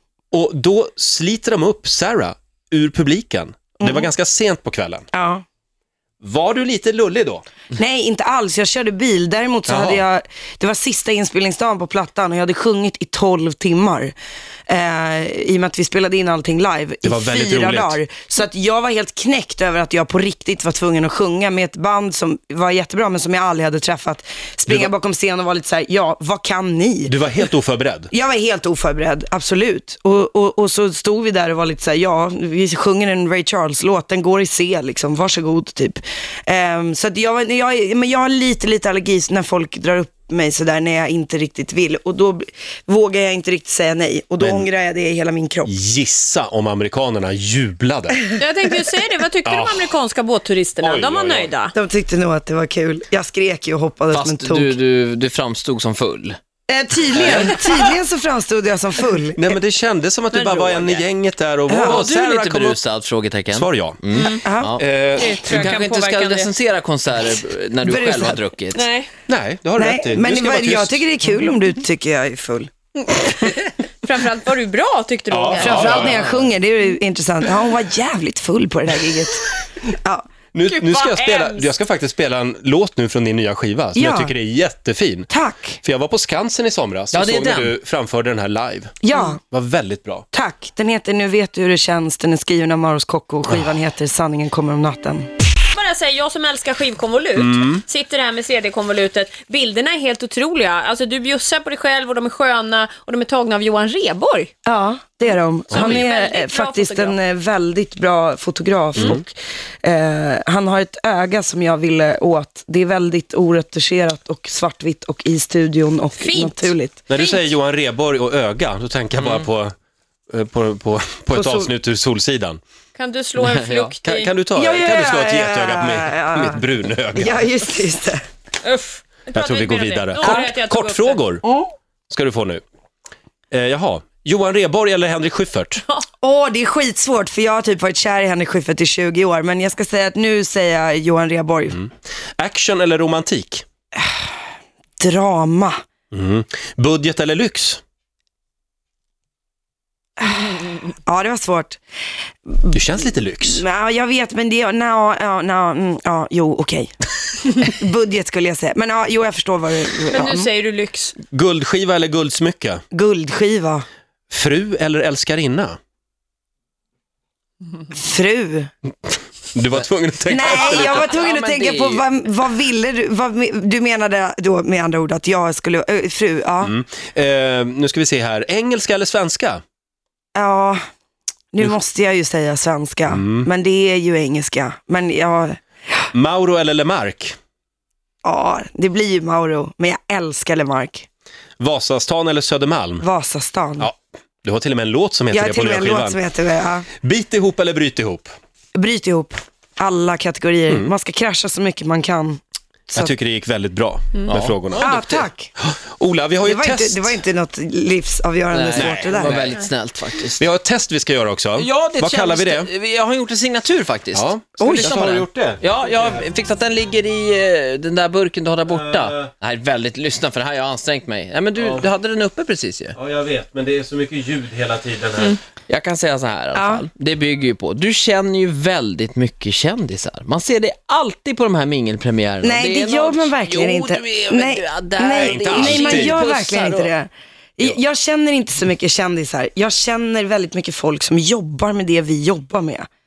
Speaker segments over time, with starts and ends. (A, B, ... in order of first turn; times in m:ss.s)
0:00.3-0:05.1 A
0:03.8-0:04.1 B
0:05.1-0:05.4 B
0:06.2-0:07.4 A
0:07.7-0:14.1 B
0:09.7-0:10.0 A
0:14.7-0:27.1 B
0:17.0-0:18.0 A
0:27.1-0:28.1 A
0:28.1-0:45.7 B
0:44.4-0:44.7 A
0:45.6-0:48.3 A
0:48.4-0:51.7 C
0:49.4-0:49.9 A
0:50.8-0:51.5 A
0:51.7-0:54.8 B
0:54.1-0:56.4 D
0:56.7-0:59.5 B
0:57.1-0:57.6 A
0:59.4-1:02.8 A
1:00.3-1:01.0 C
1:01.7-1:02.0 B
1:01.8-1:04.9 D
1:03.5-1:04.0 A
1:04.1-1:04.5 C
1:04.4-1:04.7 B
1:04.8-1:05.5 A
1:05.1-1:06.5 C
1:05.4-1:08.8 D
1:07.8-1:08.4 B
1:08.7-1:09.1 C
1:09.3-1:11.0 A
1:09.8-1:12.7 B
1:13.0-1:13.5 C
1:14.0-1:16.0 C
1:15.3-1:16.3 A
1:15.6-1:20.2 B
1:15.7-1:16.4 D
1:20.5-1:25.3 A
1:20.6-1:21.7 C
1:23.9-1:24.3 B
1:25.3-1:25.8 B
1:25.8-1:30.3 A
1:27.1-1:27.7 D
1:29.0-1:29.4 B
1:30.3-1:35.3 B
1:35.7-1:44.5 C
1:37.4-1:37.8 A
1:44.6-1:57.0 B
1:45.7-1:46.1 A
1:45.7-1:47.2 C
1:49.0-1:49.2 A
1:56.2-1:57.4 C
1:57.1-1:59.7 A
1:59.2-1:59.4 D
2:00.3-2:02.6 A
2:01.3-2:01.7 B
2:03.0-2:04.3 C
2:03.4-2:03.9 D
2:04.0-2:07.5 A
2:04.5-2:06.6 B
2:07.1-2:08.2 B
2:08.6-2:11.3 C
2:09.3-2:11.4 A
2:11.4-2:11.7 B
2:12.1-2:12.6 A
2:13.5-2:15.8 A
2:16.2-2:21.8 B
2:21.7-2:23.6 A
2:24.0-2:24.2 B
2:25.0-2:25.8 B
2:26.1-2:27.8 A
2:30.2-2:31.8 B
2:32.5-2:40.5 B
2:32.7-2:33.6 A
2:40.1-2:41.2 C
2:41.3-2:42.8 A
2:42.9-2:43.8 B
2:44.3-2:45.8 A
2:47.9-2:48.7 B
2:49.5-2:51.2 A
2:50.3-2:56.7 B
2:50.5-2:52.0 D
2:56.6-2:59.6 A
3:00.3-3:00.8 B
3:01.5-3:05.6 B
3:03.1-3:03.5 A
3:06.1-3:07.4 A
3:08.2-3:11.0 B
3:11.6-3:13.0 A
3:13.0-3:13.9 B
3:13.8-3:16.2 A
3:15.3-3:16.9 B
3:17.0-3:18.3 A
3:18.7-3:22.4 B
3:22.9-3:24.9 A
3:24.3-3:25.3 D
3:24.8-3:25.5 B
3:25.6-3:27.2 A
3:26.4-3:29.5 B
3:28.5-3:30.4 D
3:28.7-3:29.4 A
3:30.4-3:32.7 A
3:31.6-3:42.9 D
3:34.1-3:35.6 A
3:34.6-3:35.0 B
3:38.7-3:39.3 A
3:41.6-3:41.8 A
3:43.0-3:45.4 A
3:45.7-3:56.9 D
3:46.5-3:46.8 B
3:52.4-4:02.9 B
3:55.2-3:56.2 A